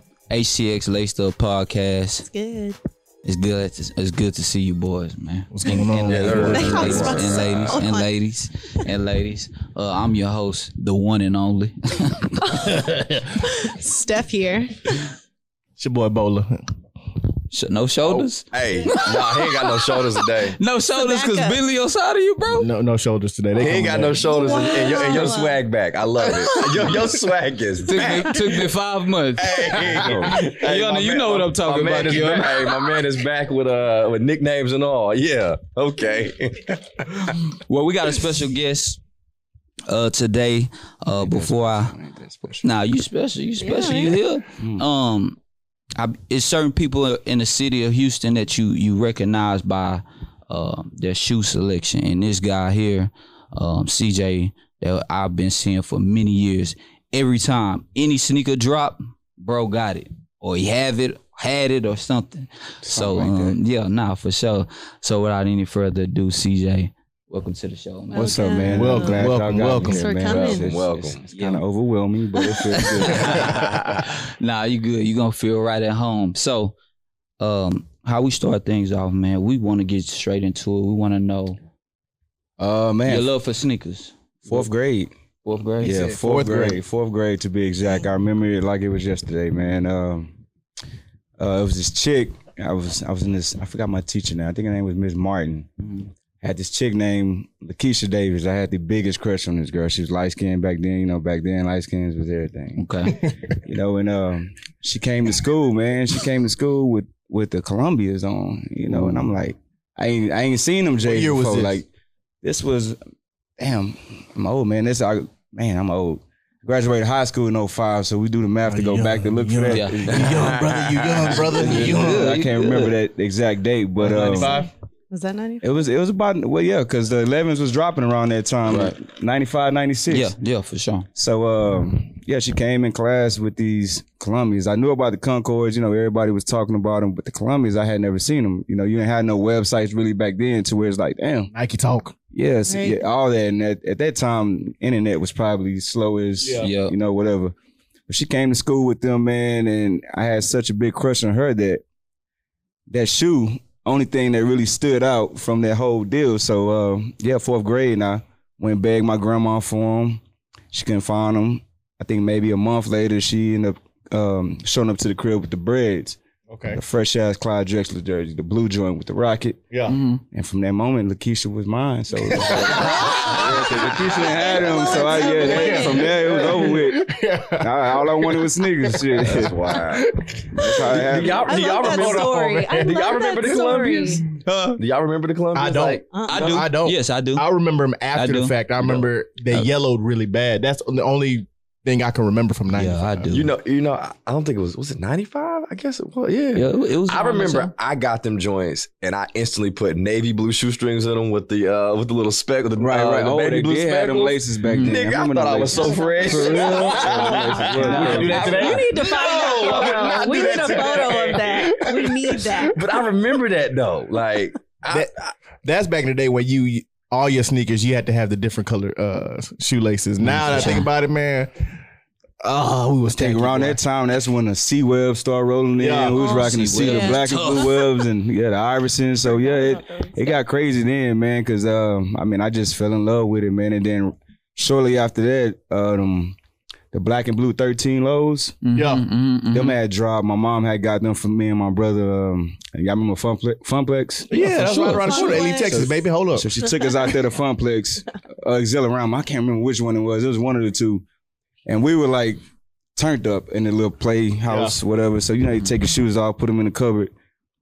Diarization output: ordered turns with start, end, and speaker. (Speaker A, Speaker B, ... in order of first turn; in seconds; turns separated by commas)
Speaker A: 0.3-2.2, Speaker B: 2.2-2.8, Speaker A: 3.2-12.8, Speaker C: 5.5-7.1, Speaker D: 6.0-7.6, Speaker B: 6.4-8.1, Speaker E: 7.4-7.7, Speaker B: 12.4-15.1, Speaker C: 15.8-16.6, Speaker A: 17.5-19.6, Speaker D: 18.1-20.6, Speaker A: 20.6-22.7, Speaker B: 20.9-21.6, Speaker C: 22.5-24.3, Speaker D: 23.6-28.7, Speaker B: 24.2-25.6, Speaker A: 26.6-26.9, Speaker A: 27.8-32.8, Speaker D: 29.4-37.3, Speaker C: 29.7-30.2, Speaker E: 30.0-30.4, Speaker C: 31.8-32.5, Speaker A: 37.7-39.0, Speaker A: 39.9-42.0, Speaker E: 41.1-42.7, Speaker A: 42.6-45.4, Speaker B: 43.6-44.2, Speaker E: 44.6-44.8, Speaker A: 46.0-68.4, Speaker E: 62.8-63.6, Speaker B: 68.1-70.7, Speaker E: 68.1-73.6, Speaker C: 68.7-70.1, Speaker D: 70.5-71.2, Speaker A: 71.3-71.6, Speaker A: 72.8-76.7, Speaker D: 73.1-74.0, Speaker A: 77.4-81.6, Speaker E: 82.6-83.3, Speaker A: 83.1-84.7, Speaker E: 84.5-85.1, Speaker A: 85.4-86.1, Speaker E: 85.8-90.3, Speaker C: 85.8-86.8, Speaker E: 91.4-95.8, Speaker A: 95.8-96.1, Speaker E: 96.4-103.1, Speaker A: 102.8-103.2, Speaker E: 103.6-111.9, Speaker A: 108.9-109.3, Speaker C: 111.0-111.8, Speaker E: 112.4-113.0, Speaker E: 113.6-120.6, Speaker C: 118.7-122.3, Speaker A: 119.7-120.2, Speaker D: 120.2-121.6, Speaker E: 121.3-124.6, Speaker A: 121.6-123.0, Speaker C: 124.0-124.7, Speaker A: 124.1-124.4, Speaker B: 125.1-125.7, Speaker E: 125.6-130.3, Speaker A: 128.7-129.0, Speaker A: 130.1-131.1, Speaker E: 131.2-141.5, Speaker C: 141.5-142.1, Speaker E: 142.3-147.5, Speaker B: 142.7-143.0, Speaker C: 146.4-146.7, Speaker A: 146.6-146.9, Speaker E: 148.1-151.8, Speaker E: 152.9-160.2, Speaker E: 160.7-166.2, Speaker C: 166.5-166.8, Speaker E: 166.7-169.6, Speaker C: 169.7-170.0, Speaker A: 169.9-170.2, Speaker E: 170.3-179.7, Speaker C: 172.2-181.2, Speaker D: 172.5-174.5, Speaker B: 172.9-173.4, Speaker B: 174.1-176.4, Speaker D: 179.2-180.2, Speaker E: 180.5-181.5, Speaker D: 180.8-186.6, Speaker B: 181.4-184.2, Speaker C: 181.9-183.0, Speaker C: 185.5-193.3, Speaker B: 186.1-186.5, Speaker A: 186.2-187.4, Speaker A: 188.1-189.7, Speaker A: 192.7-193.5, Speaker D: 193.3-215.3, Speaker A: 196.5-197.7, Speaker E: 202.8-208.8, Speaker A: 204.6-205.0, Speaker B: 205.8-212.8, Speaker A: 206.2-208.9, Speaker C: 211.7-212.7, Speaker C: 215.6-221.5, Speaker A: 220.2-220.9, Speaker C: 222.4-223.8, Speaker E: 223.1-236.3, Speaker C: 225.8-226.2, Speaker A: 226.1-227.8, Speaker B: 226.4-227.5, Speaker B: 229.2-230.3, Speaker E: 236.9-238.6, Speaker A: 238.6-239.8, Speaker C: 238.7-239.1, Speaker E: 239.5-251.0, Speaker C: 244.3-246.5, Speaker A: 244.4-245.4, Speaker B: 244.8-245.8, Speaker E: 251.7-252.4, Speaker E: 252.9-257.1, Speaker C: 254.5-254.7